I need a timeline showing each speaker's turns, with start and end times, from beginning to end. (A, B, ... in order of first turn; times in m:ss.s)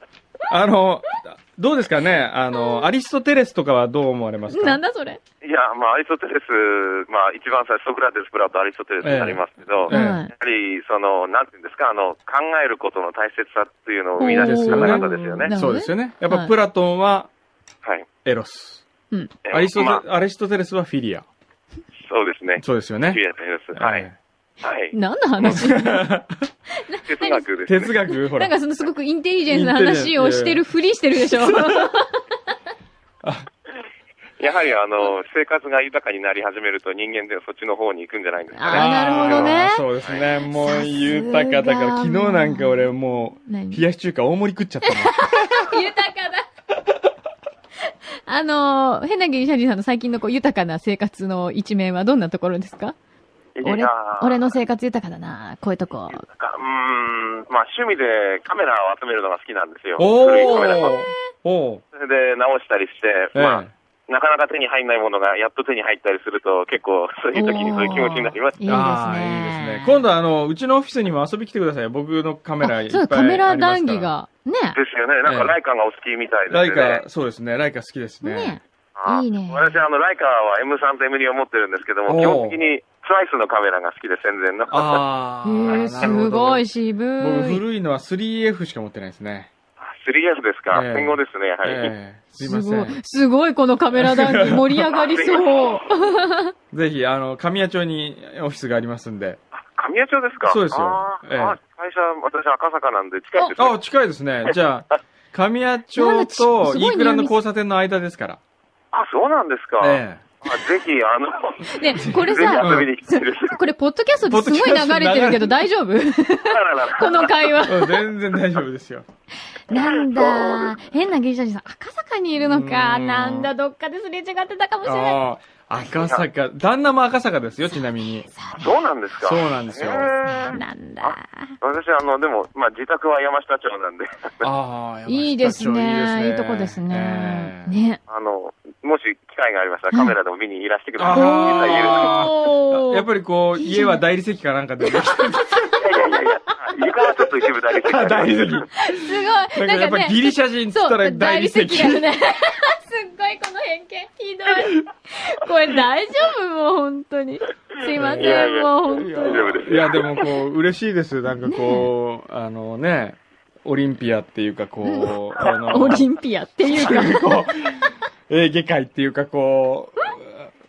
0:00.5-0:04.8 A
0:02.6-0:02.8 B
0:04.5-0:05.2 B
0:05.4-0:15.5 C
0:09.0-0:10.2 A
0:09.9-0:10.3 B
0:14.2-0:16.5 B
0:14.4-0:17.3 A
0:18.2-0:18.9 A
0:19.5-0:20.0 C
0:19.5-0:21.3 A
0:22.1-0:24.1 C
0:22.6-0:23.2 A
0:23.8-0:24.2 A
0:24.6-0:25.6 C
0:24.9-0:26.1 B
0:25.4-0:26.5 A
0:26.8-0:32.3 B
0:27.0-0:28.0 C
0:27.7-0:28.6 A
0:29.5-0:30.6 A
0:31.2-0:31.9 A
0:34.4-0:40.3 C
0:38.5-0:39.9 B
0:38.7-0:45.8 A
0:40.4-0:42.9 B
0:43.4-0:43.8 B
0:44.8-0:46.4 B
0:48.3-0:53.0 B
0:53.6-0:54.5 C
0:53.6-0:56.2 B
0:56.1-1:01.0 C
1:00.0-1:01.8 A
1:00.4-1:01.1 B
1:01.9-1:08.8 C
1:03.4-1:03.7 A
1:07.3-1:10.0 B
1:08.7-1:14.1 A
1:12.6-1:14.8 B
1:14.7-1:17.0 C
1:15.2-1:15.6 A
1:16.5-1:18.6 A
1:18.2-1:19.8 B
1:19.0-1:25.0 C
1:22.1-1:22.6 A
1:24.7-1:26.7 A
1:25.4-1:27.6 B
1:25.7-1:26.2 C
1:27.2-1:29.5 A
1:29.8-1:32.0 C
1:30.7-1:33.0 A
1:32.4-1:36.5 B
1:33.9-1:34.9 A
1:35.0-1:35.8 C
1:36.7-1:39.4 A
1:39.7-1:43.8 C
1:40.4-1:41.6 A
1:43.6-1:48.4 A
1:46.0-1:47.4 B
1:48.9-1:53.6 C
1:49.8-1:50.2 A
1:51.7-1:58.0 B
1:52.0-1:52.9 A
1:54.3-1:55.6 A
1:56.4-1:57.4 C
1:57.7-1:59.1 A
1:59.7-2:05.2 B
1:59.7-2:00.7 C
2:02.4-2:03.5 A
2:04.8-2:08.3 A
2:06.0-2:06.3 C
2:08.2-2:08.7 B
2:08.6-2:14.5 C
2:09.2-2:10.2 A
2:10.2-2:11.5 B
2:14.4-2:17.8 A
2:15.1-2:18.0 B
2:18.1-2:22.3 C
2:21.0-2:25.9 A
2:21.1-2:23.0 B
2:23.6-2:24.0 B
2:24.8-2:25.8 B
2:25.8-2:28.6 C
2:27.8-2:32.1 A
2:28.8-2:39.6 B
2:38.0-2:46.1 A
2:38.1-2:38.7 C
2:39.2-2:40.3 C
2:41.5-2:41.9 B
2:44.8-2:47.4 B
2:46.7-2:50.5 A